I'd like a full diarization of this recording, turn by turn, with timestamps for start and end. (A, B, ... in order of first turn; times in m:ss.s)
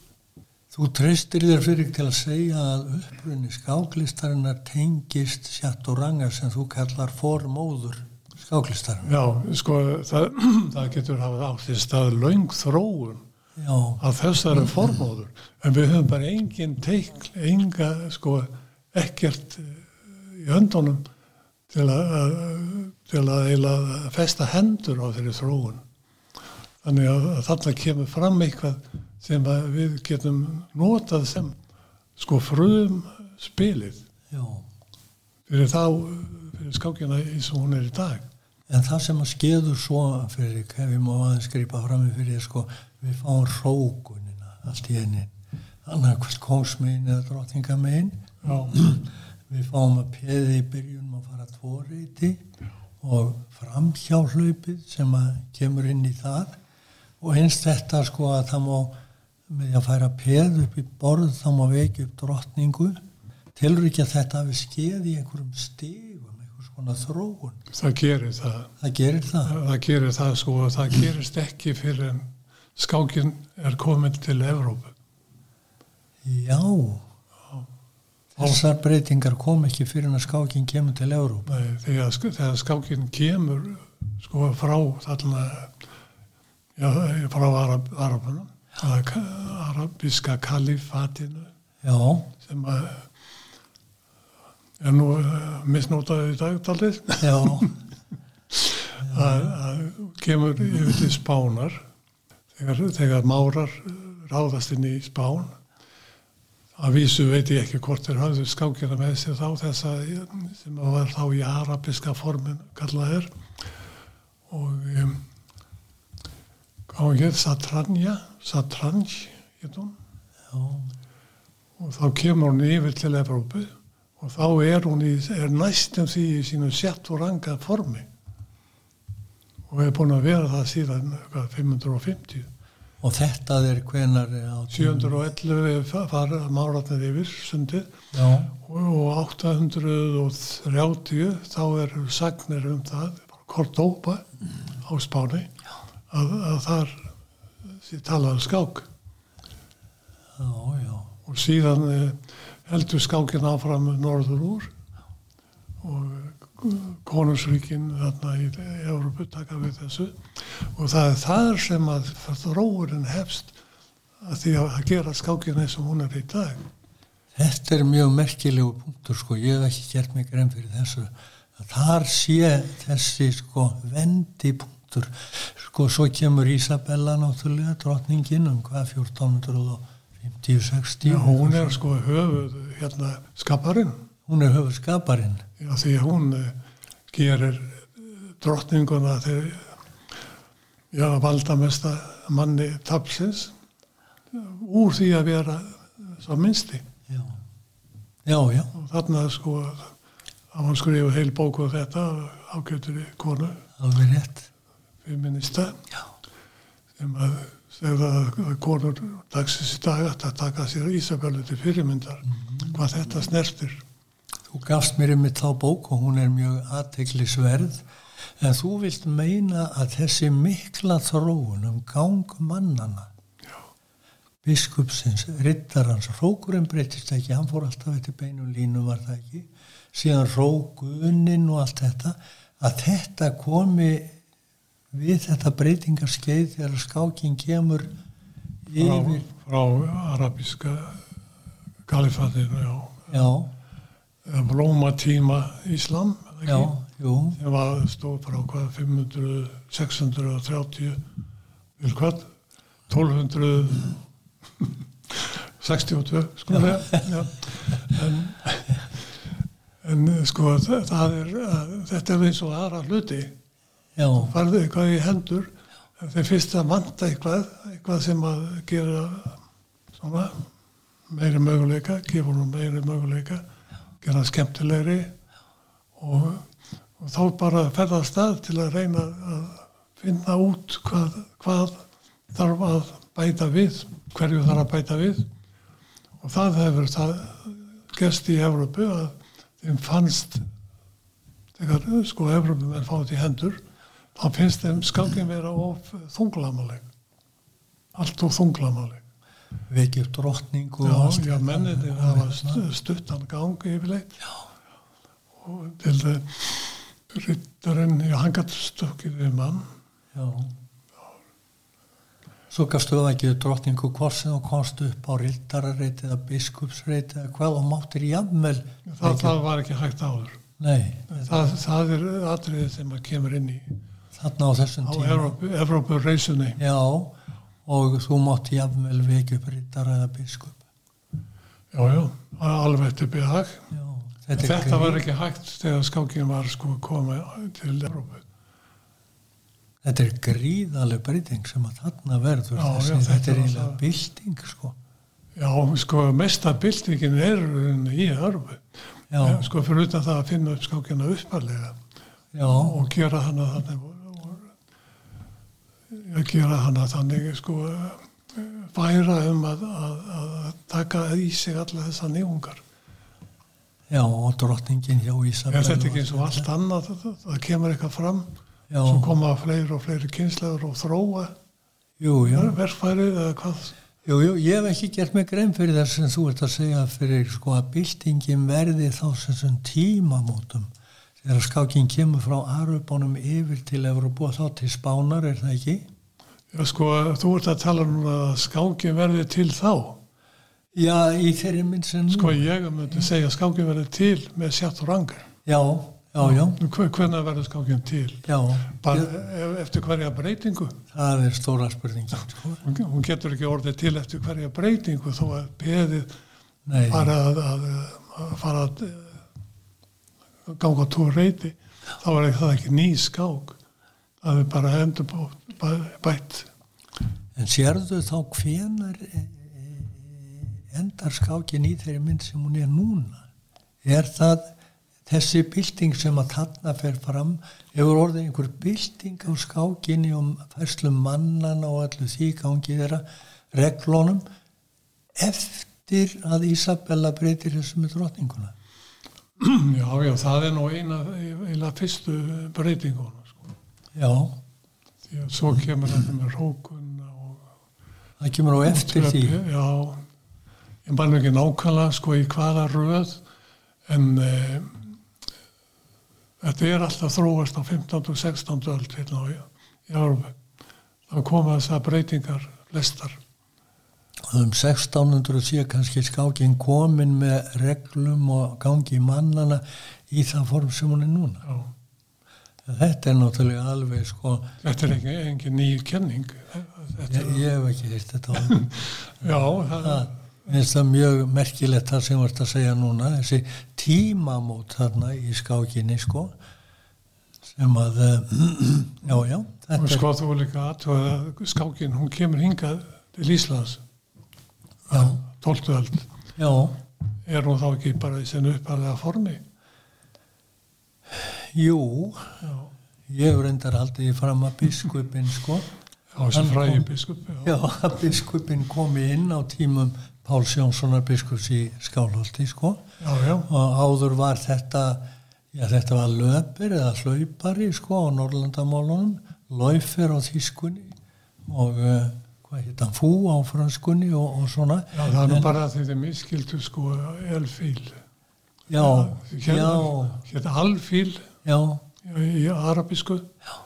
0:00.7-0:09.1 A
0:09.0-0:13.2 B
0:13.6-0:14.0 A
0:14.0-0:21.1 B
0:21.7-0:25.8 B
0:26.8-0:31.6 B
0:32.2-0:34.0 B
0:34.3-0:34.7 A
0:35.5-0:38.2 B
0:38.7-0:52.4 A
0:48.4-0:48.8 B
0:53.0-0:56.6 A
0:57.2-0:59.0 A
0:59.5-1:03.0 A
1:03.5-1:07.6 A
1:07.7-1:08.7 B
1:08.8-1:09.5 A
1:09.4-1:14.9 B
1:16.2-1:17.0 A
1:18.4-1:21.5 A
1:18.4-1:18.6 B
1:21.4-1:25.7 B
1:26.8-1:31.5 B
1:31.8-1:32.3 A
1:32.4-1:33.1 B
1:34.8-1:37.7 B
1:37.2-1:37.7 A
1:38.5-1:41.8 B
1:39.0-1:39.5 A
1:42.6-1:45.6 B
1:46.8-1:53.4 B
1:54.5-1:55.2 B
1:56.9-2:00.0 B
2:00.5-2:00.9 A
2:01.8-2:08.1 B
2:09.7-2:12.5 B
2:13.0-2:15.1 A
2:14.7-2:17.9 B
2:18.1-2:18.5 A
2:18.5-2:24.3 B
2:24.8-2:25.5 B
2:26.1-2:27.1 B
2:27.6-2:28.9 B
2:30.4-2:31.1 A
2:31.2-2:34.7 B
2:35.8-2:43.6 B
2:44.2-2:46.7 B
2:47.3-3:01.8 A
3:01.0-3:04.0 B
3:04.3-3:05.4 A
3:05.6-3:06.6 B
3:07.1-3:09.8 B
3:10.9-3:13.5 B
3:14.3-3:16.8 B
3:17.1-3:17.4 A
3:18.2-3:18.7 A
3:18.7-3:19.9 B
3:20.5-3:23.7 B
3:23.8-3:24.5 A
3:25.0-3:25.8 B
3:27.0-3:33.8 B
3:32.4-3:32.7 A
3:34.5-3:37.8 A
3:38.4-3:43.1 A
3:44.4-3:54.2 A
3:54.9-3:57.9 A
3:58.6-3:59.2 A
3:58.8-4:01.0 B
4:01.9-4:03.2 B
4:03.1-4:03.5 A
4:04.2-4:06.7 B
4:06.4-4:07.4 A
4:07.4-4:11.0 B
4:11.8-4:12.3 B
4:12.9-4:14.0 B
4:14.6-4:19.0 B
4:16.5-4:17.1 A
4:19.8-4:23.4 B
4:24.0-4:24.3 A
4:24.2-4:29.4 B
4:30.0-4:30.5 B
4:31.1-4:33.4 B
4:34.0-4:35.1 B
4:36.0-4:45.3 B
4:46.2-4:50.5 B
4:51.6-4:53.6 B
4:54.1-4:56.8 B
4:57.9-4:59.0 B
4:59.7-5:02.6 A
5:00.8-5:04.3 B
5:05.4-5:09.7 B
5:10.1-5:10.5 A
5:12.5-5:19.3 A
5:18.8-5:20.4 B
5:20.6-5:21.4 A
5:21.1-5:23.8 B
5:24.1-5:25.3 A
5:24.8-5:26.6 B
5:26.6-5:30.6 A
5:31.7-5:33.7 B
5:33.7-5:35.0 A
5:34.3-5:38.2 B
5:39.8-5:44.8 A
5:42.5-5:43.8 B
5:45.4-5:48.6 B
5:49.1-5:49.5 A
5:49.2-5:51.8 B
5:52.3-5:52.8 A
5:52.5-5:54.5 B
5:55.9-6:02.6 B
6:03.9-6:06.5 A
6:05.5-6:11.3 B
6:08.7-6:09.1 A
6:12.0-6:12.5 A
6:12.2-6:13.7 B
6:14.0-6:25.9 A
6:26.5-6:30.0 B
6:30.7-6:32.4 A
6:32.1-6:35.3 B
6:35.4-6:36.6 A
6:36.2-6:40.8 B
6:38.2-6:39.1 A
6:40.9-6:42.6 A
6:42.6-6:46.1 B
6:46.6-6:47.1 A
6:46.9-6:49.2 B
6:50.4-6:53.6 B
6:54.2-6:56.5 B
6:57.3-7:03.3 A
7:03.8-7:04.5 A
7:05.0-7:14.2 A
7:15.2-7:18.5 A
7:19.4-7:23.5 B
7:23.9-7:24.4 A
7:25.1-7:27.4 B
7:28.2-7:29.4 A
7:28.6-7:30.0 B
7:30.8-7:33.2 B
7:33.9-7:35.0 B
7:36.4-7:40.3 B
7:41.1-7:43.2 B
7:44.3-7:51.4 A
7:51.4-7:51.7 B
7:52.6-7:54.5 A
7:54.6-7:57.4 B
7:57.1-7:58.6 A
7:58.5-8:00.5 B
7:59.8-8:06.4 A
8:07.5-8:10.1 A
8:09.7-8:13.8 B
8:14.9-8:16.1 B
8:14.9-8:15.2 A
8:16.4-8:16.8 A
8:17.2-8:19.4 B
8:21.1-8:22.4 A
8:22.4-8:22.7 B
8:23.1-8:25.7 A
8:26.1-8:27.6 B
8:26.3-8:26.8 A
8:27.4-8:32.8 A
8:33.0-8:33.5 B
8:33.5-8:41.0 A
8:41.5-8:45.5 A
8:44.9-8:48.0 B
8:48.7-8:50.2 A
8:48.8-8:51.3 B
8:51.4-8:51.8 A
8:52.0-8:53.3 B